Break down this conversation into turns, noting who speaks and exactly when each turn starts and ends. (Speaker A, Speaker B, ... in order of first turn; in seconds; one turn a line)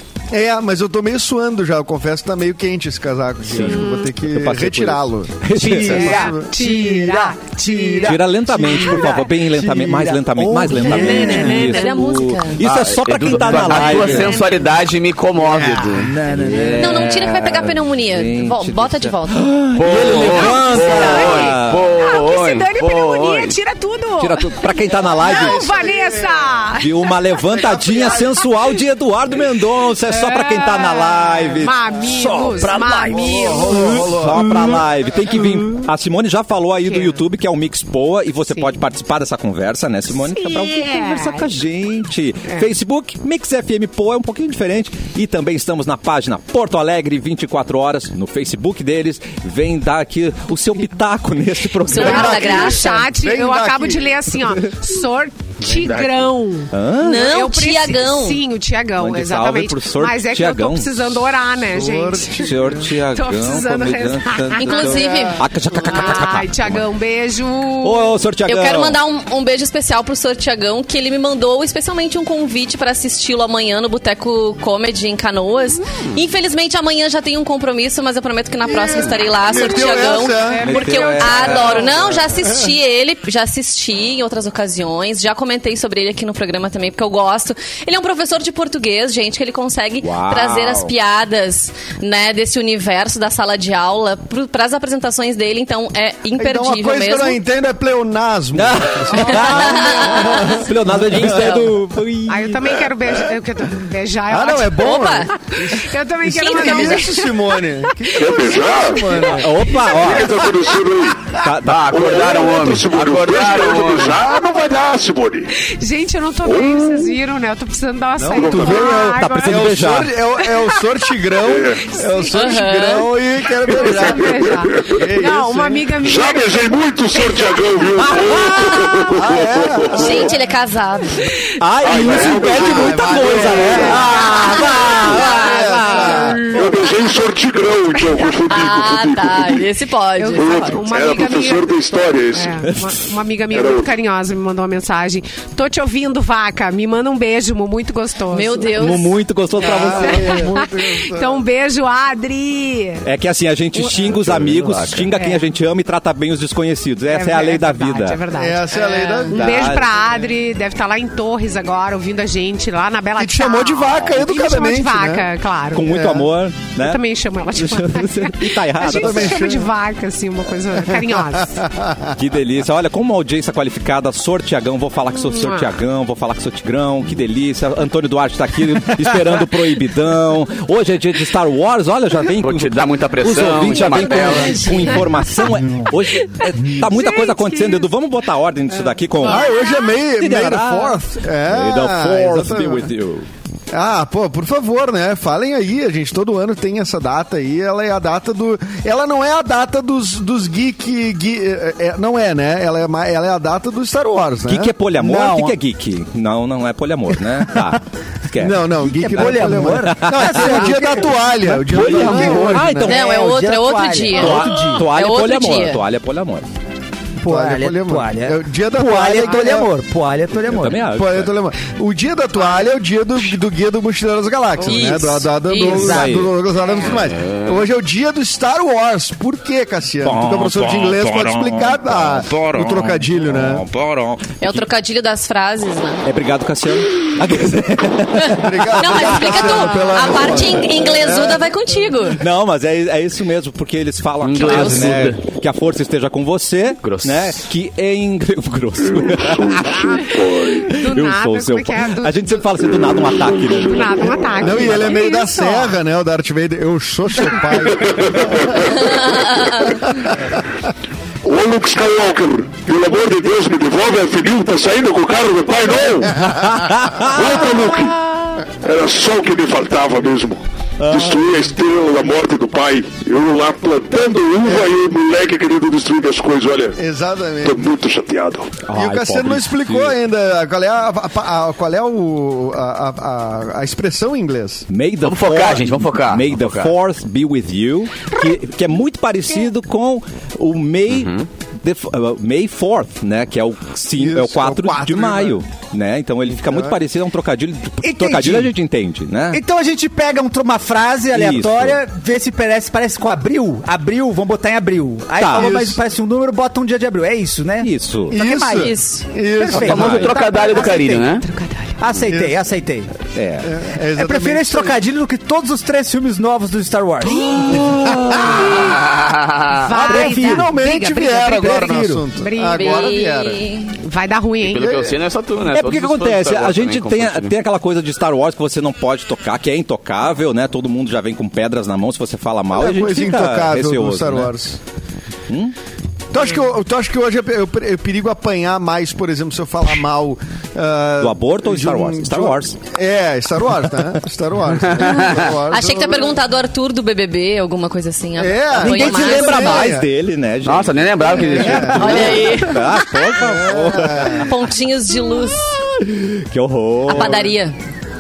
Speaker A: 0.3-6.6
Speaker B: 3.4-6.1
Speaker C: 3.6-4.1
Speaker D: 5.5-11.7
Speaker C: 6.0-9.2
Speaker B: 8.1-14.4
Speaker C: 10.9-11.9
Speaker E: 11.2-12.6
Speaker F: 12.6-16.1
Speaker C: 13.4-14.7
Speaker D: 15.4-17.2
Speaker B: 16.3-22.0
Speaker E: 16.8-19.6
Speaker F: 19.8-23.6
Speaker C: 20.3-27.4
Speaker B: 24.2-25.6
Speaker A: 25.2-26.7
Speaker B: 26.8-31.8
Speaker A: 27.5-28.5
Speaker C: 30.0-34.1
Speaker D: 32.0-34.7
Speaker A: 33.1-34.7
Speaker B: 34.1-52.5
Speaker C: 36.8-37.2
Speaker C: 40.2-41.6
Speaker C: 42.5-42.7
Speaker E: 51.9-53.1
Speaker A: 51.9-54.3
Speaker C: 52.2-68.2
Speaker B: 55.8-56.2
Speaker B: 56.7-57.3
Speaker E: 57.0-58.4
Speaker B: 59.0-61.2
Speaker A: 61.7-62.9
Speaker B: 62.4-66.8
Speaker E: 64.5-66.2
Speaker B: 67.8-69.0
Speaker E: 68.5-97.4
Speaker A: 79.0-80.8
Speaker C: 79.5-82.0
Speaker B: 80.6-82.1
Speaker A: 82.1-82.8
Speaker B: 90.0-90.9
Speaker A: 96.3-101.7
Speaker B: 98.5-102.8
Speaker C: 99.1-99.6
Speaker E: 99.2-100.7
Speaker E: 101.2-101.7
Speaker C: 102.3-110.7
Speaker A: 104.3-105.8
Speaker E: 104.8-105.3
Speaker E: 106.2-107.1
Speaker A: 106.4-109.7
Speaker G: 108.2-109.0
Speaker B: 109.4-110.5
Speaker G: 110.0-115.5
Speaker B: 111.3-112.0
Speaker F: 111.6-114.2
Speaker C: 115.6-119.8
Speaker G: 116.4-116.9
Speaker A: 118.2-125.9
Speaker G: 118.4-118.9
Speaker B: 118.5-120.1
Speaker C: 120.4-121.0
Speaker G: 121.4-121.8
Speaker C: 121.9-122.6
Speaker E: 122.3-123.1
Speaker C: 123.6-126.6
Speaker G: 126.0-130.3
Speaker C: 127.2-127.7
Speaker B: 128.0-128.9
Speaker A: 129.1-130.4
Speaker E: 129.9-131.3
Speaker B: 131.6-135.5
Speaker G: 131.8-134.0
Speaker A: 131.9-134.3
Speaker C: 133.8-136.9
Speaker E: 134.5-136.4
Speaker A: 135.0-136.5
Speaker G: 136.5-139.7
Speaker C: 138.0-138.3
Speaker E: 138.5-140.8
Speaker C: 140.2-141.8
Speaker G: 140.4-142.6
Speaker C: 142.3-149.1
Speaker G: 143.5-143.9
Speaker E: 148.3-149.1
Speaker B: 148.8-150.4
Speaker A: 149.6-151.4
Speaker C: 149.6-153.1
Speaker B: 153.0-158.2
Speaker C: 153.8-154.1
Speaker A: 154.1-155.0
Speaker C: 155.0-155.4
Speaker C: 157.1-166.0
Speaker A: 158.3-159.8
Speaker E: 158.8-159.3
Speaker B: 159.3-160.1
Speaker A: 163.2-165.3
Speaker B: 165.7-167.0
Speaker A: 165.8-166.3
Speaker C: 166.7-171.7
Speaker B: 167.5-169.5
Speaker A: 168.9-169.7
Speaker A: 171.6-172.2
Speaker B: 172.2-189.5
Speaker C: 175.1-175.8
Speaker F: 182.4-184.8
Speaker C: 183.9-185.1
Speaker D: 184.5-184.7
Speaker D: 185.6-185.9
Speaker C: 186.2-187.9
Speaker D: 186.6-186.9
Speaker A: 189.2-192.9
Speaker B: 190.2-193.3
Speaker A: 193.7-205.4
Speaker B: 204.5-208.6
Speaker D: 205.0-205.6
Speaker A: 208.4-213.0
Speaker D: 208.7-214.9
Speaker B: 209.2-210.8
Speaker B: 211.8-213.2
Speaker F: 211.8-212.6
Speaker E: 212.8-215.8
Speaker B: 214.1-216.5
Speaker D: 217.2-220.9
Speaker A: 217.2-219.7
Speaker B: 220.5-221.3
Speaker A: 220.9-233.7
Speaker E: 224.6-226.1
Speaker D: 225.6-226.3
Speaker B: 225.8-226.3
Speaker C: 226.5-227.1
Speaker F: 227.0-227.6
Speaker B: 230.0-234.6
Speaker E: 234.4-236.1
Speaker B: 236.1-240.0
Speaker E: 238.2-242.2
Speaker A: 238.3-241.5
Speaker B: 242.2-249.9
Speaker F: 244.2-245.2
Speaker E: 244.4-245.0
Speaker F: 246.8-247.3
Speaker G: 248.9-250.7
Speaker C: 250.6-255.8
Speaker B: 250.7-254.1
Speaker G: 252.6-254.5
Speaker A: 254.4-260.1
Speaker G: 257.8-258.9
Speaker E: 259.3-259.6
Speaker G: 261.2-266.3
Speaker B: 265.7-268.4
Speaker G: 267.0-268.0
Speaker G: 268.6-276.8
Speaker B: 270.8-271.3
Speaker A: 273.9-274.7
Speaker A: 276.8-277.7
Speaker G: 277.4-278.6
Speaker B: 278.6-279.9
Speaker A: 278.7-284.7
Speaker B: 284.7-299.4
Speaker F: 285.0-286.7
Speaker F: 290.9-291.3
Speaker A: 294.0-295.4
Speaker A: 296.3-296.8
Speaker D: 297.8-298.5
Speaker D: 299.3-308.8
Speaker B: 301.1-301.8
Speaker B: 305.2-305.7
Speaker A: 305.4-305.8
Speaker B: 307.6-308.1
Speaker A: 308.1-310.1
Speaker E: 308.5-309.0
Speaker D: 309.3-311.2
Speaker F: 309.5-311.3
Speaker B: 309.6-310.1
Speaker C: 311.2-311.8
Speaker D: 311.8-312.9
Speaker A: 312.1-312.4
Speaker B: 313.1-313.5
Speaker A: 313.4-314.8
Speaker D: 313.9-317.5
Speaker B: 317.5-318.3
Speaker A: 318.0-318.5
Speaker F: 318.6-319.6
Speaker C: 319.5-323.0
Speaker D: 319.8-320.5
Speaker A: 319.9-323.4
Speaker E: 322.6-323.7
Speaker C: 323.7-324.8
Speaker F: 324.4-327.4
Speaker A: 324.6-325.0
Speaker B: 325.5-334.3
Speaker A: 332.5-334.6
Speaker B: 335.3-335.5
Speaker A: 336.1-346.2
Speaker B: 341.0-342.6
Speaker F: 344.7-345.2
Speaker E: 344.9-349.7
Speaker A: 348.2-349.9
Speaker B: 348.6-354.3
Speaker D: 348.7-349.2
Speaker F: 350.4-352.5
Speaker A: 351.1-352.3
Speaker E: 351.8-353.2
Speaker A: 353.2-354.3
Speaker E: 354.0-355.5
Speaker B: 355.1-357.3
Speaker E: 356.9-357.6
Speaker A: 356.9-357.2